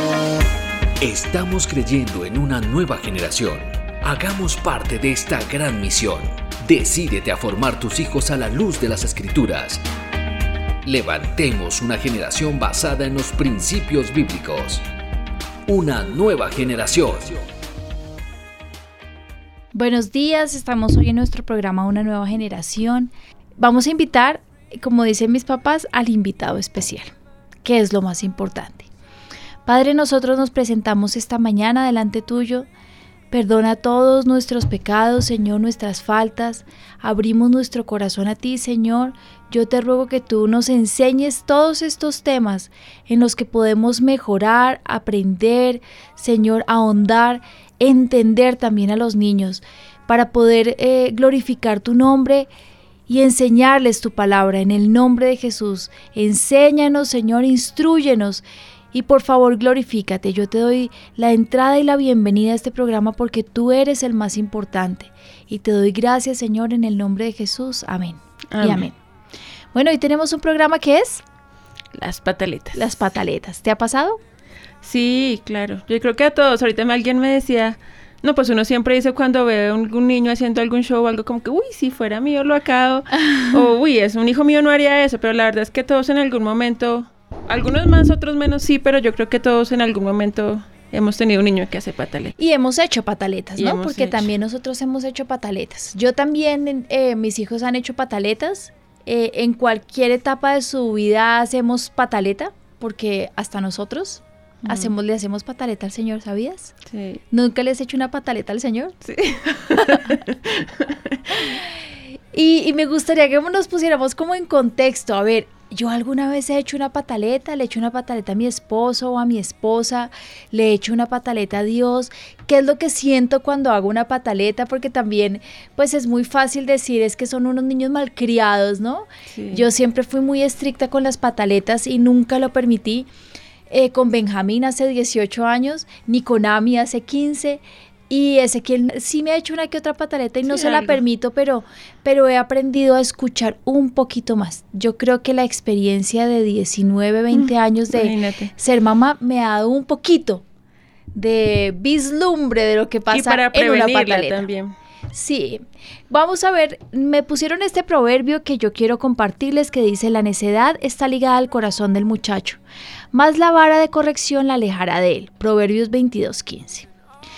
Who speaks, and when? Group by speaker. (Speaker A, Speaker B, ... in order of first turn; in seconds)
Speaker A: 1.0-9.8, 10.8-14.8, 15.7-17.4
Speaker B: 19.7-27.1, 27.6-28.9, 29.7-32.7, 33.3-52.5, 53.1-69.0, 69.7-71.2, 72.7-74.2, 92.4-106.7, 107.3-109.0, 109.9-110.1, 111.4-111.7, 112.3-133.1, 133.7-150.4, 151.2-154.5, 155.1-162.6, 163.1-166.9
Speaker C: 68.5-68.9, 71.9-72.8, 74.8-92.3, 93.6-94.3, 104.6-104.9, 106.9-107.2, 109.0-111.4, 129.3-129.7, 140.5-141.0, 147.3-148.5, 153.1-154.8